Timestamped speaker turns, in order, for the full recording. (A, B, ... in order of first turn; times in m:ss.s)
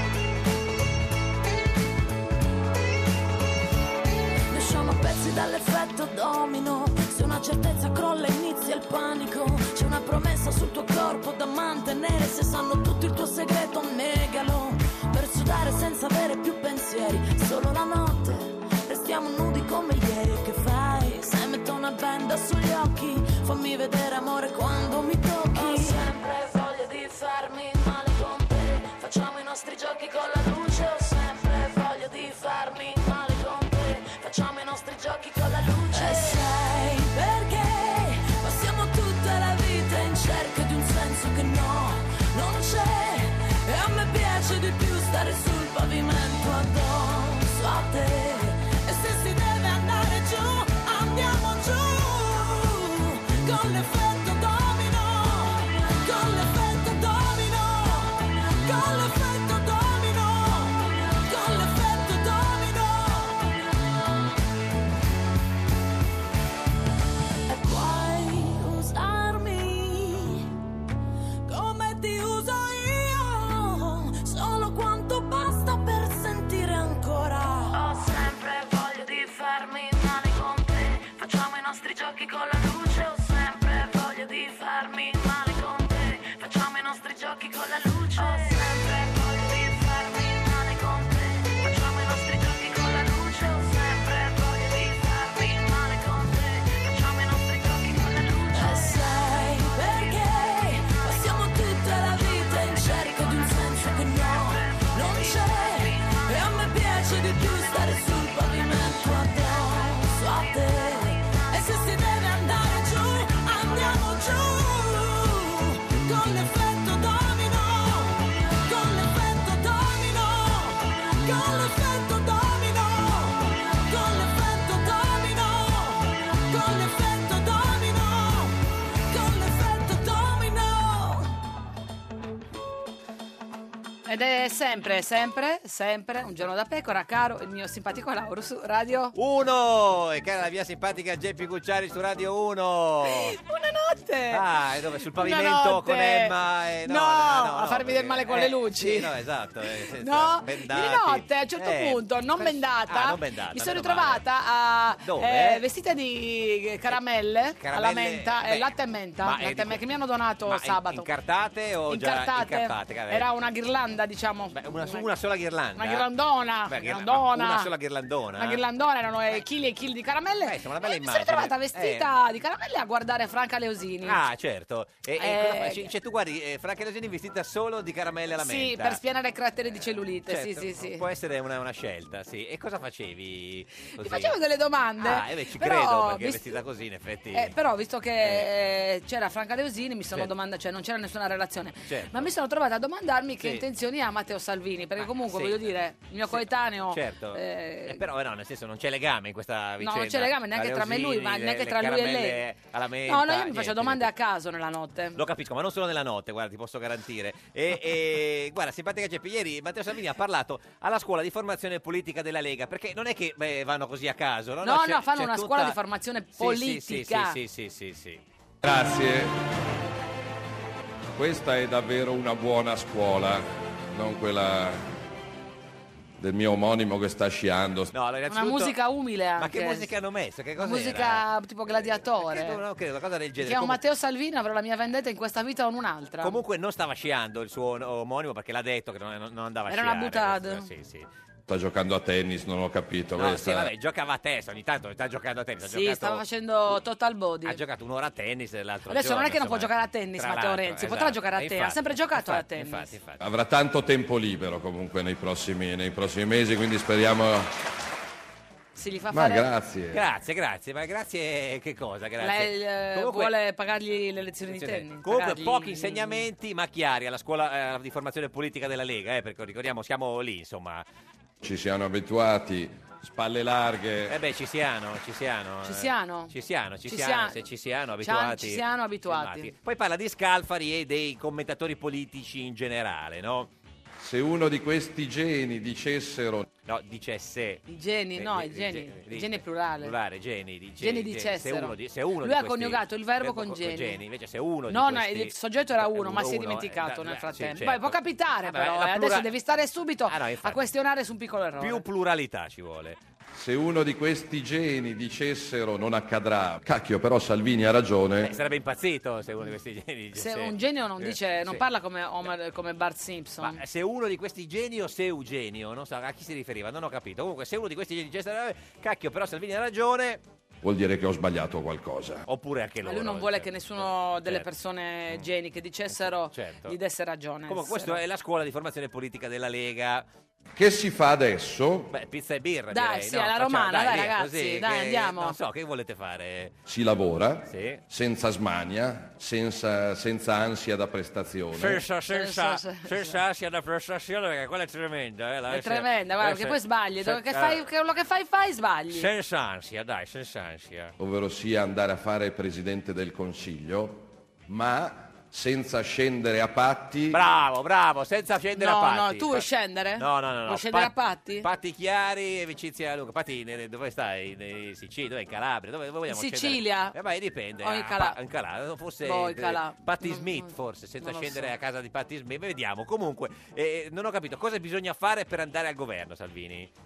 0:04.5-0:26.2 A
0:30.3-0:33.7 A
0:35.4-1:03.6 A
1:07.5-1:10.5 A
1:11.4-1:18.1 A
1:19.7-2:11.3 A
2:14.1-2:19.1 B
2:19.1-2:23.4 C
2:23.0-2:24.4 B
2:24.3-2:34.2 C
2:25.1-2:26.3 B
2:26.8-2:29.1 B
2:30.0-2:41.1 B
2:35.0-2:35.6 C
2:37.6-2:39.8 C
2:40.5-2:43.3 C
2:41.9-2:45.0 B
2:44.5-2:46.1 C
2:45.8-2:47.7 B
2:46.7-2:48.6 C
2:48.4-2:54.2 B
2:50.4-2:52.1 C
2:54.0-2:59.0 C
2:55.2-2:55.9 B
2:58.4-3:01.0 B
3:00.3-3:04.4 C
3:04.0-3:06.6 B
3:05.0-3:07.5 C
3:07.3-3:18.0 B
3:08.2-3:08.5 C
3:11.9-3:12.3 C
3:15.0-3:15.7 C
3:16.3-3:24.1 C
3:19.8-3:22.4 B
3:23.1-3:25.2 B
3:25.1-3:35.8 C
3:34.6-3:37.4 B
3:36.4-3:38.2 C
3:38.6-3:39.3 D
3:41.2-3:44.8 D
3:46.2-3:47.9 D
3:47.9-3:48.7 C
3:48.3-3:49.9 B
3:49.4-3:53.8 C
3:50.6-3:52.6 B
3:53.4-3:56.4 B
3:56.2-4:01.1 C
3:59.7-4:00.7 B
4:01.5-4:03.7 D
4:03.2-4:06.2 C
4:05.6-4:07.6 B
4:07.4-4:13.2 C
4:08.9-4:12.9 B
4:13.2-4:17.5 D
4:18.7-4:19.4 B
4:19.1-4:20.0 D
4:19.9-4:23.3 C
4:22.2-4:26.3 B
4:24.5-4:30.8 C
4:31.4-4:34.2 D
4:34.1-4:43.5 C
4:35.6-4:36.3 B
4:36.8-4:37.4 B
4:38.0-4:39.5 B
4:44.0-4:46.5 D
4:46.6-4:47.6 C
4:47.7-4:49.9 B
4:48.2-4:59.3 C
4:50.8-4:54.0 B
4:54.7-5:01.8 B
5:00.1-5:00.6 C
5:01.6-5:03.0 C
5:03.3-5:08.4 D
5:08.2-5:11.6 C
5:10.1-5:13.6 B
5:13.4-5:20.2 C
5:20.6-5:22.2 D
5:22.3-5:24.5 C
5:22.8-5:28.0 B
5:26.3-5:26.7 C
5:27.5-5:30.0 C
5:30.5-5:31.9 D
5:31.9-5:36.5 C
5:32.7-5:35.4 B
5:36.6-5:41.8 D
5:37.5-5:37.8 C
5:41.5-5:47.6 C
5:42.1-5:43.2 B
5:45.5-5:49.1 B
5:48.9-5:50.9 C
5:51.0-5:57.2 D
5:57.1-6:16.7 C
5:58.6-6:01.4 B
6:06.1-6:07.0 B
6:07.6-6:08.2 B
6:09.0-6:11.5 B